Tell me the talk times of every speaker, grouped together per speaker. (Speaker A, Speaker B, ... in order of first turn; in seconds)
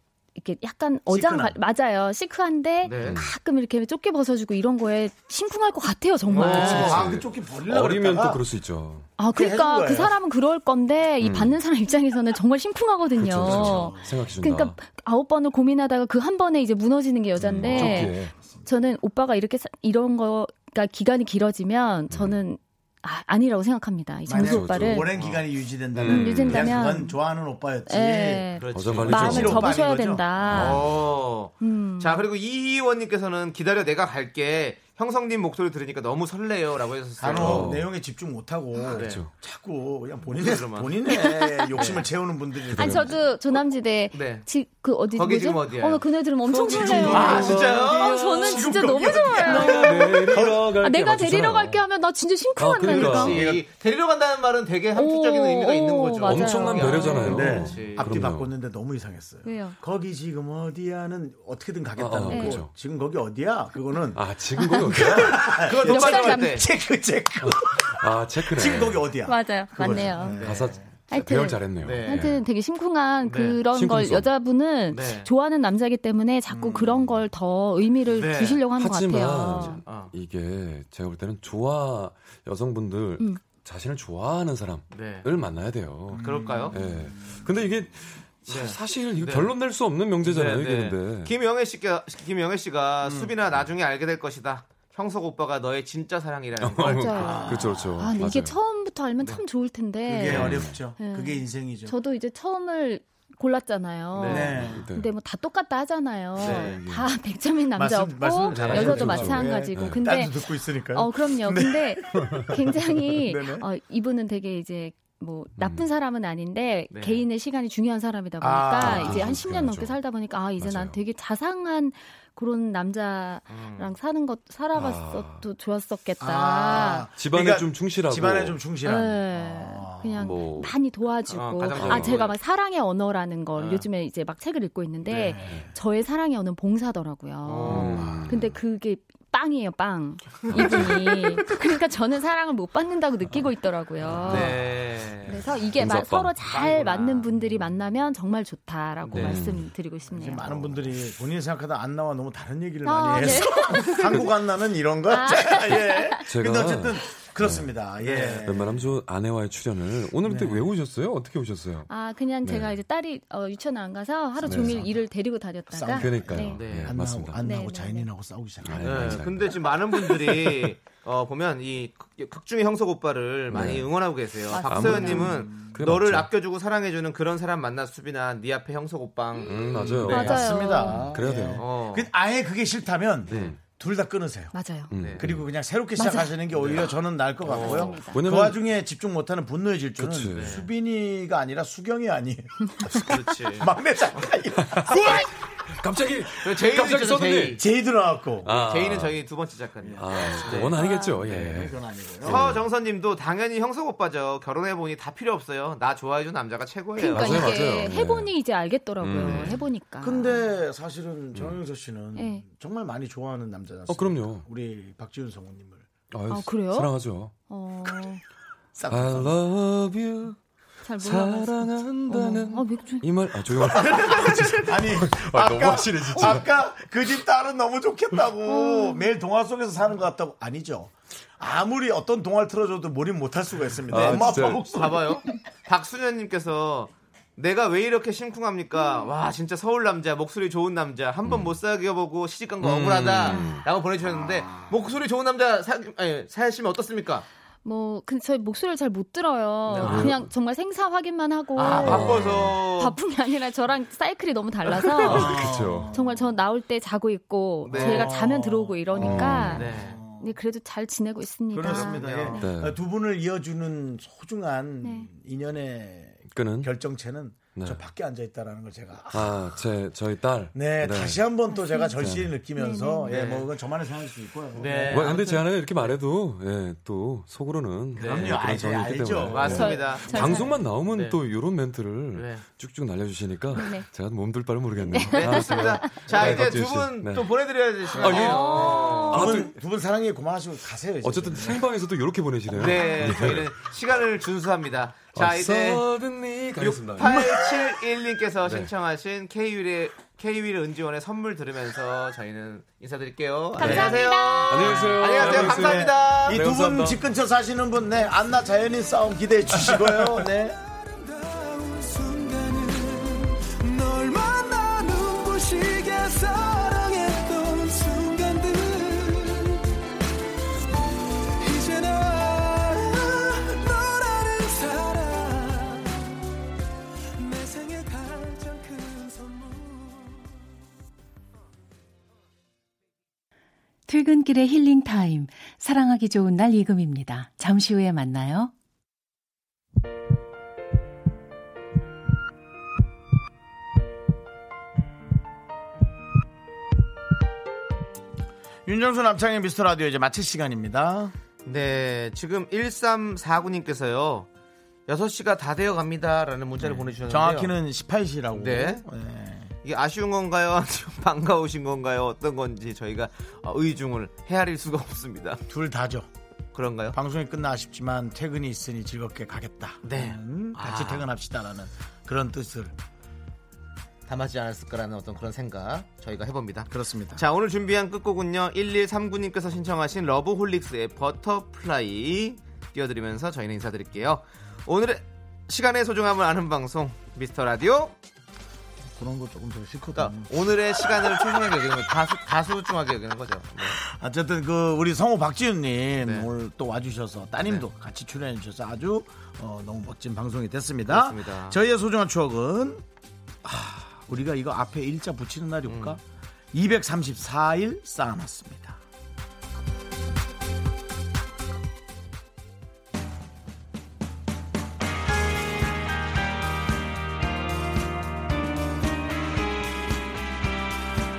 Speaker A: 0.3-7.0, 9.2-25.1, 26.0-27.2, 27.9-30.9, 31.6-32.2, 41.1-42.0, 42.8-53.4, 54.9-57.8, 59.4-59.8, 62.3-62.6, 64.6-65.0, 65.8-66.6, 69.2-70.5, 71.1-79.8, 96.8-127.1, 128.8-144.6, 145.2-150.6, 152.8-154.3, 155.1-156.2, 161.9-166.7, 167.3-168.1, 174.5-175.6, 180.1-181.1, 184.5-184.9, 185.9-186.4, 187.4-188.3, 200.8-201.3, 207.0-210.4, 212.1-212.4, 216.3-218.2, 220.8-223.1, 228.4-229.1, 247.6-262.4, 264.8-265.1, 271.6-272.0, 272.6-273.2, 279.4-280.5, 283.5-283.9, 284.8-286.0, 288.0-289.5, 292.7-293.1, 303.6-305.3
Speaker B: 1.1-1.6, 6.5-8.4, 9.3-10.2, 13.2-14.2, 17.6-18.7, 24.2-30.6, 37.2-43.3, 46.7-50.7, 53.0-53.6, 57.1-70.8, 76.5-77.2, 86.1-87.5, 93.0-93.3, 97.0-98.0, 100.0-102.0, 104.2-104.9, 107.7-113.7, 118.4-119.4, 126.2-130.3, 135.1-135.7, 137.7-138.4, 150.1-158.8, 160.2-160.7, 164.4-165.0, 165.7-169.2, 175.4-175.8, 180.1-195.3, 197.5-198.6, 199.8-202.4, 210.0-215.9, 218.7-219.3, 223.6-235.2, 244.1-244.7, 255.0-256.3, 257.7-260.3, 261.5-269.6, 270.5-275.3, 278.0-280.3, 289.1-291.6, 303.6-303.9, 305.1-310.6, 348.6-351.1, 356.6-359.5, 365.5-366.1, 366.9-372.7, 376.7-377.2, 388.9-391.6, 393.6-402.8, 403.4-406.0, 406.5-408.8
Speaker C: 2.8-3.2, 6.3-7.1, 17.6-18.1, 25.1-25.4, 28.6-29.7, 30.5-37.7, 38.9-39.2, 40.3-41.0, 41.7-42.0, 44.1-44.5, 45.1-48.6, 49.6-49.8, 52.9-58.2, 65.3-66.7, 70.3-72.3, 73.2-73.6, 74.9-75.3, 78.1-78.6, 79.8-80.1, 84.9-85.3, 86.1-86.8, 88.5-89.5, 90.2-97.5, 104.1-104.6, 106.4-106.8, 108.5-109.1, 116.9-117.2, 123.5-123.9, 131.3-132.3, 133.6-133.9, 137.4-138.2, 140.5-140.8, 144.2-145.4, 146.5-147.3, 149.0-149.4, 158.0-158.5, 166.5-166.9, 168.8-180.5, 181.5-182.1, 183.3-183.6, 184.9-185.3, 186.5-188.0, 190.3-190.7, 192.9-194.3, 196.4-197.6, 198.4-200.8, 202.2-207.7, 209.2-209.6, 233.9-247.3, 249.7-250.1, 251.6-253.0, 255.0-255.3, 257.6-258.1, 259.0-260.0, 261.6-262.4, 273.1-273.5, 274.5-275.9, 277.9-278.5, 279.3-281.2, 282.1-282.4, 285.1-289.4, 292.5-295.8, 296.6-306.4, 309.5-310.2, 351.4-354.3, 354.9-357.5, 358.3-358.8, 359.6-365.4, 366.5-366.9, 369.8-371.1, 374.1-387.9, 389.9-393.8, 396.0-396.3, 400.9-401.6, 405.7-406.0
Speaker D: 3.0-3.3, 6.3-9.1, 11.2-11.6, 13.2-14.8, 17.4-18.3, 22.1-22.4, 24.3-25.1, 25.9-26.8, 28.7-29.8, 30.4-30.9, 37.3-37.9, 38.9-39.3, 42.7-43.1, 46.7-48.1, 49.3-51.8, 52.5-53.4, 56.2-58.5, 62.0-62.7, 64.1-65.6, 67.4-69.1, 70.4-72.4, 73.6-74.3, 78.6-91.3, 96.6-98.5, 100.2-100.9, 104.6-105.1, 106.4-107.1, 108.7-110.0, 112.2-112.5, 115.5-115.8, 118.8-120.0, 120.6-121.0, 124.7-125.4, 127.1-128.7, 130.2-130.8, 131.8-132.2, 137.6-138.6, 140.5-141.4, 144.1-144.7, 145.3-146.3, 149.1-149.7, 153.9-154.3, 156.2-157.7, 158.4-161.9, 162.4-162.8, 164.4-164.8, 165.9-167.6, 168.6-170.6, 173.5-173.9, 174.7-176.3, 179.4-181.7, 183.3-183.6, 184.9-185.4, 188.1-188.6, 190.0-190.6, 194.6-195.2, 195.7-197.6, 198.4-199.2, 200.0-202.6, 207.0-208.3, 209.0-209.7, 213.9-214.4, 216.1-217.4, 218.9-220.3, 221.0-226.5, 233.9-234.7, 241.2-241.5, 242.6-243.7, 249.7-250.3, 251.6-252.6, 254.9-255.9, 258.9-259.6, 262.4-262.8, 266.3-266.7, 267.5-267.8, 269.1-271.2, 271.9-272.4, 274.9-287.3, 287.9-289.5, 291.0-293.5, 295.1-297.7, 298.4-298.7, 303.6-303.9, 304.5-307.1
Speaker E: 310.5-319.6, 321.4-326.0, 327.2-330.3
Speaker F: 333.9-338.5